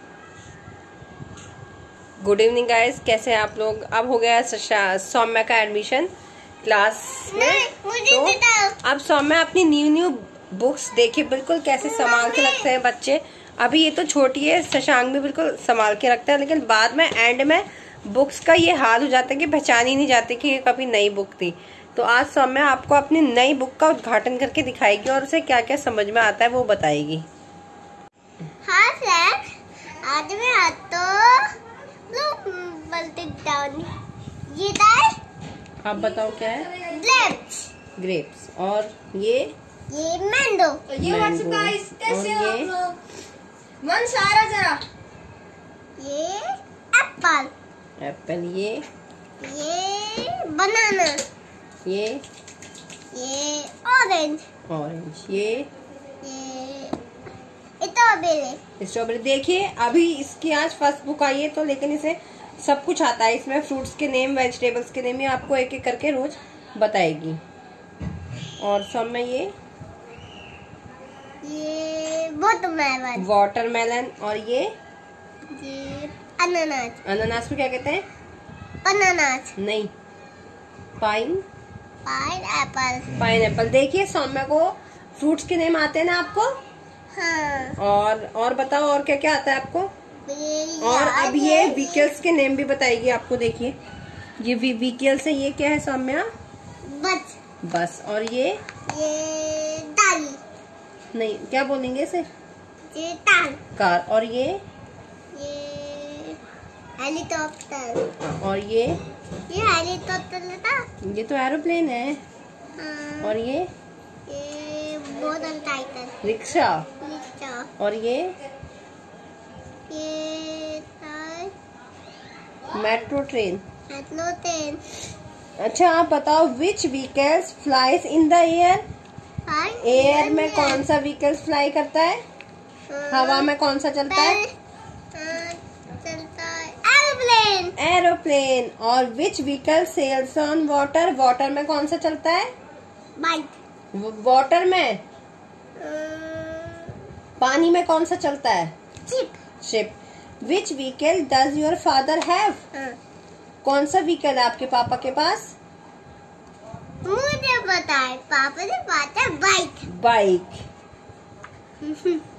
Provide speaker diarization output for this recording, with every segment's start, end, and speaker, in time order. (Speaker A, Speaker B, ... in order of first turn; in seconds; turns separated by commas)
Speaker A: 2.2-6.1, Speaker A: 6.6-27.2, Speaker B: 7.3-8.8, Speaker B: 11.8-12.7, Speaker B: 28.6-29.4, Speaker B: 29.9-31.5, Speaker B: 32.1-33.9, Speaker B: 34.5-35.2, Speaker A: 35.8-36.7, Speaker B: 36.8-37.7, Speaker A: 38.0-39.5, Speaker B: 39.9-40.8, Speaker C: 40.9-43.0, Speaker A: 41.0-42.7, Speaker C: 43.8-44.8, Speaker B: 46.0-47.5, Speaker A: 48.0-48.8, Speaker B: 49.4-51.2, Speaker A: 51.8-52.2, Speaker B: 53.1-54.4, Speaker A: 54.7-55.7, Speaker B: 56.2-57.0, Speaker B: 57.8-58.6, Speaker A: 58.8-67.4, Speaker A: 68.6-69.5, Speaker B: 71.4-73.2, Speaker A: 73.2-74.7, Speaker B: 75.5-77.0, Speaker A: 77.0-78.0, Speaker B: 78.8-79.5, Speaker A: 79.6-79.9, Speaker A: 81.0-81.4, Speaker B: 82.0-83.1, Speaker A: 83.2-86.5, Speaker B: 87.1-87.8, Speaker A: 87.8-89.9, Speaker B: 90.2-92.1, Speaker A: 90.8-93.8, Speaker A: 94.4-96.3, Speaker B: 96.8-97.4, Speaker A: 97.6-98.6, Speaker B: 98.9-100.4, Speaker A: 101.1-102.3, Speaker B: 102.9-103.6, Speaker A: 103.8-104.6, Speaker B: 105.3-106.4, Speaker B: 107.0-108.1, Speaker A: 108.2-109.0, Speaker B: 109.5-110.8, Speaker A: 111.0-112.2, Speaker B: 112.8-113.3, Speaker A: 113.2-113.7, Speaker B: 114.3-116.1, Speaker A: 116.2-116.9, Speaker B: 117.0-117.7, Speaker A: 117.8-118.3, Speaker B: 119.9-121.5, Speaker A: 122.7-123.6, Speaker B: 123.9-124.8, Speaker A: 125.6-128.8, Speaker B: 129.5-130.8, Speaker A: 129.8-132.2, Speaker B: 132.9-133.5, Speaker A: 133.1-134.4, Speaker B: 134.1-134.5, Speaker B: 135.1-137.7, Speaker A: 137.8-142.5, Speaker B: 143.2-143.5, Speaker A: 143.9-145.0, Speaker B: 145.8-146.9, Speaker A: 147.4-148.7, Speaker B: 149.1-149.4, Speaker A: 149.6-152.6, Speaker A: 153.6-155.5, Speaker B: 157.0-159.8, Speaker A: 159.9-160.6, Speaker B: 161.8-162.2